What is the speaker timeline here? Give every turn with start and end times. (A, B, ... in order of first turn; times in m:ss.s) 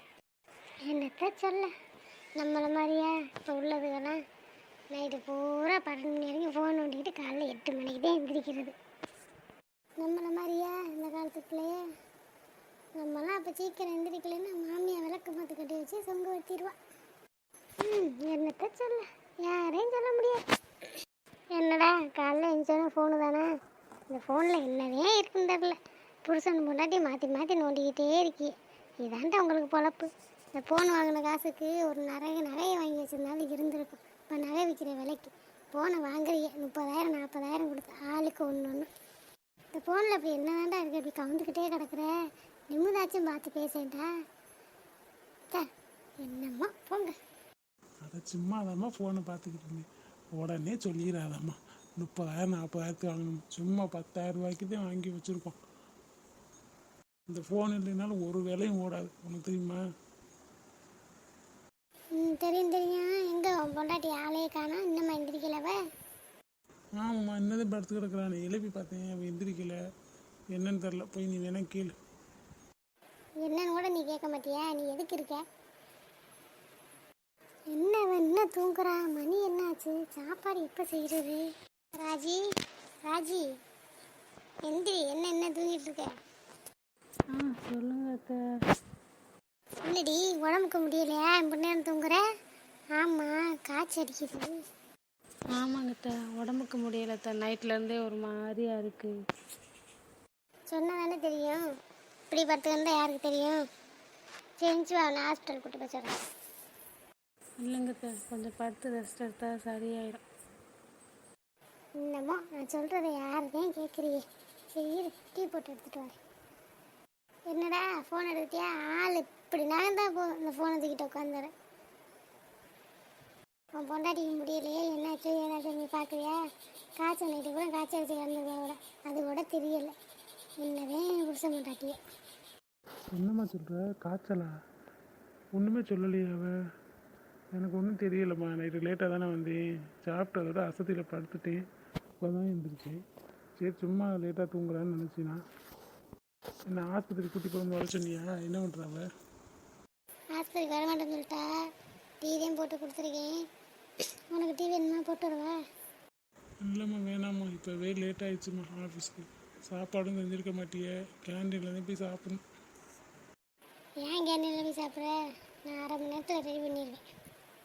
0:00.9-0:01.7 A
0:02.4-0:04.2 A
0:04.9-0:08.8 A
0:10.0-0:11.8 A
0:13.0-0:16.8 A
0:17.8-0:20.4 A
0:21.5-0:23.5 A
0:24.1-0:38.9 A
0:39.7-0:42.1 A
0:42.7-0:44.1 A
0:46.2-0:47.1 A
0:48.1-0:55.6 B
0:57.3-0:59.8 B
1:02.2-1:05.8 A
1:07.0-1:09.8 B
1:10.5-1:11.9 B
1:13.4-1:15.4 A
1:17.7-1:21.4 A
1:22.0-1:22.4 A
1:23.0-1:23.4 A
1:24.7-1:26.1 A
1:27.3-1:28.4 C
1:29.8-1:32.2 A
1:33.0-1:34.6 A
1:35.6-1:39.1 C
1:40.7-1:41.6 A
1:42.3-1:43.6 A
1:44.6-1:46.1 A
1:47.6-1:50.2 C
1:52.0-1:54.2 A
1:54.7-1:56.2 A
1:57.5-2:01.5 A
2:03.8-2:06.4 A
2:07.0-2:09.9 A
2:10.6-2:12.0 A
2:13.1-2:14.5 B
2:15.6-2:16.5 B
2:17.6-2:21.6 B
2:22.2-2:23.0 B
2:23.6-2:25.4 B
2:26.7-2:29.0 B
2:30.4-2:31.5 A
2:32.2-2:33.4 A
2:34.3-2:35.6 A
2:36.6-2:42.4 B
2:44.0-2:45.2 A
2:45.7-2:47.0 A